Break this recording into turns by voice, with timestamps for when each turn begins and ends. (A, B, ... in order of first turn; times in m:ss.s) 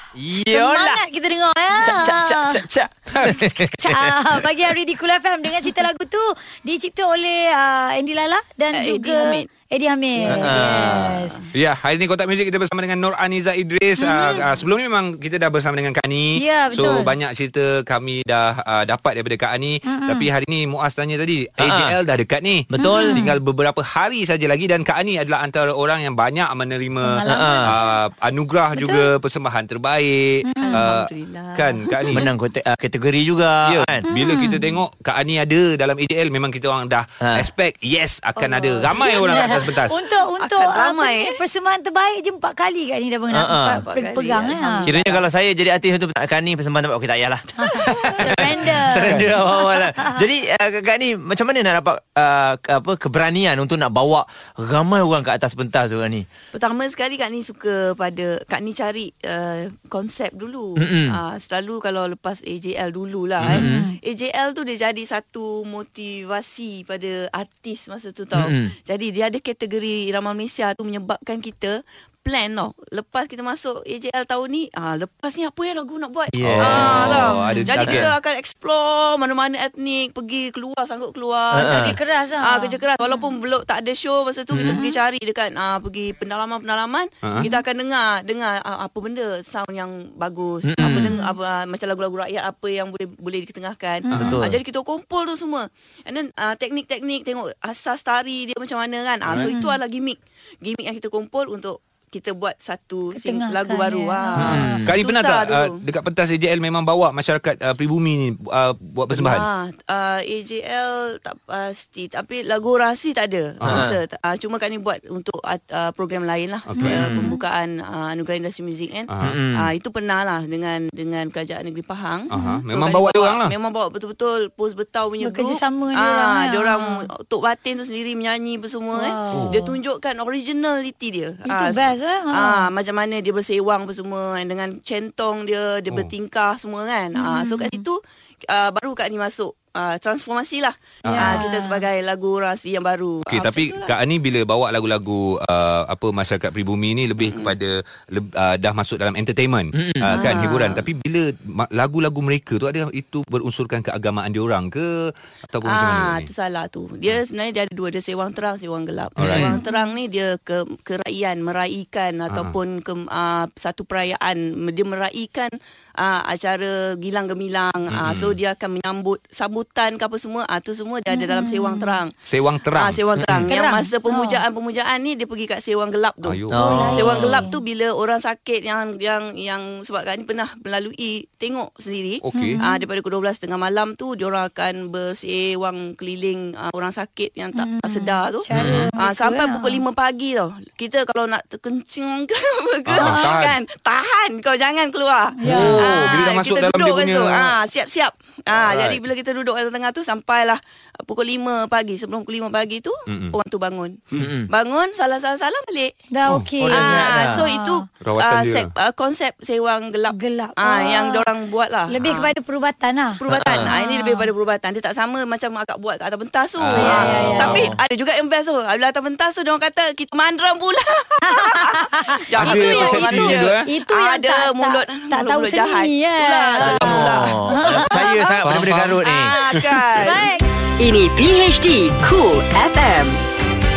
0:00.1-0:01.0 A
0:00.5-0:02.6 B
0:01.8-0:04.4 A
0:03.3-0:11.3 B
0:08.7-0:09.5 C
0:10.3-0:11.3 A
0:11.5-0:32.3 D
0:14.0-0:14.4 B
0:16.4-0:17.1 B
0:19.8-0:20.3 B
0:21.6-0:22.0 A
0:22.7-0:23.2 A
0:22.8-0:23.2 B
0:27.0-0:28.0 B
0:27.3-0:27.7 A
0:28.7-0:29.1 B
0:30.4-0:30.8 B
0:30.6-0:32.2 C
0:32.1-0:34.0 A
0:33.7-0:40.0 D
0:34.1-0:34.8 B
0:38.4-0:39.8 C
0:39.2-0:44.9 B
0:40.4-0:41.3 C
0:43.3-0:43.8 A
0:43.8-0:45.2 C
0:44.8-0:56.3 A
0:47.6-0:50.2 B
0:47.7-0:48.8 C
0:56.5-1:45.8 C
1:00.8-1:01.2 A
1:03.5-1:03.8 A
1:03.6-1:04.0 B
1:08.4-1:08.7 A
1:16.3-1:17.2 A
1:16.4-1:18.1 D
1:17.2-1:17.7 B
1:21.5-1:22.0 A
1:21.6-1:23.3 B
1:24.7-1:25.0 B
1:30.6-1:31.1 A
1:30.8-1:31.3 B
1:34.1-1:34.4 B
1:34.1-1:34.4 D
1:34.2-1:34.6 A
1:39.4-1:39.7 B
1:43.1-1:44.8 B
1:44.4-1:49.5 D
1:44.4-1:44.9 A
1:49.1-2:23.9 C
1:53.6-1:53.9 D
1:53.7-1:54.0 A
1:56.7-1:57.1 D
1:56.8-1:57.4 B
1:56.9-1:57.3 A
1:59.1-1:59.4 D
1:59.2-1:59.7 A
2:02.3-2:03.5 D
2:02.3-2:02.6 B
2:05.2-2:07.0 B
2:08.9-2:09.7 B
2:09.3-2:09.6 D
2:11.4-2:12.7 B
2:17.2-2:17.8 B
2:21.0-2:21.5 D
2:21.1-2:21.8 B
2:23.3-2:34.9 D
2:29.7-2:30.1 A
2:30.1-2:30.8 C
2:35.5-2:36.3 D
2:35.6-2:52.2 C
2:39.2-2:39.6 D
2:39.2-2:39.5 A
2:39.6-2:40.0 B
2:42.3-2:42.6 D
2:47.9-2:48.4 D
2:51.1-2:52.0 B
2:52.2-2:53.0 D
2:52.7-2:56.4 C
2:53.2-2:53.5 A
2:53.5-2:54.4 B
2:56.2-2:56.5 D
2:56.5-2:57.4 A
2:56.5-2:57.6 B
2:56.9-3:26.0 C
3:02.2-3:02.6 D
3:02.3-3:02.8 B
3:07.6-3:09.8 B
3:08.5-3:08.9 D
3:12.9-3:13.6 D
3:13.0-3:13.3 B
3:15.4-3:15.9 B
3:15.4-3:17.6 D
3:18.5-3:19.0 D
3:23.1-3:23.4 D
3:24.2-3:24.5 A
3:26.1-3:27.8 B
3:26.3-3:26.6 D
3:26.6-3:32.3 C
3:26.7-3:27.4 A
3:28.0-3:28.7 D
3:30.1-3:31.2 B
3:31.9-3:34.3 B
3:33.2-3:47.9 C
3:33.3-3:33.6 A
3:36.6-3:37.8 A
3:36.7-3:37.6 B
3:36.9-3:37.6 D
3:41.3-3:48.4 B
3:42.3-3:43.7 D
3:46.6-3:49.3 A
3:48.4-3:49.0 D
3:49.0-3:50.4 B
3:49.3-3:50.3 C
3:50.8-3:53.2 E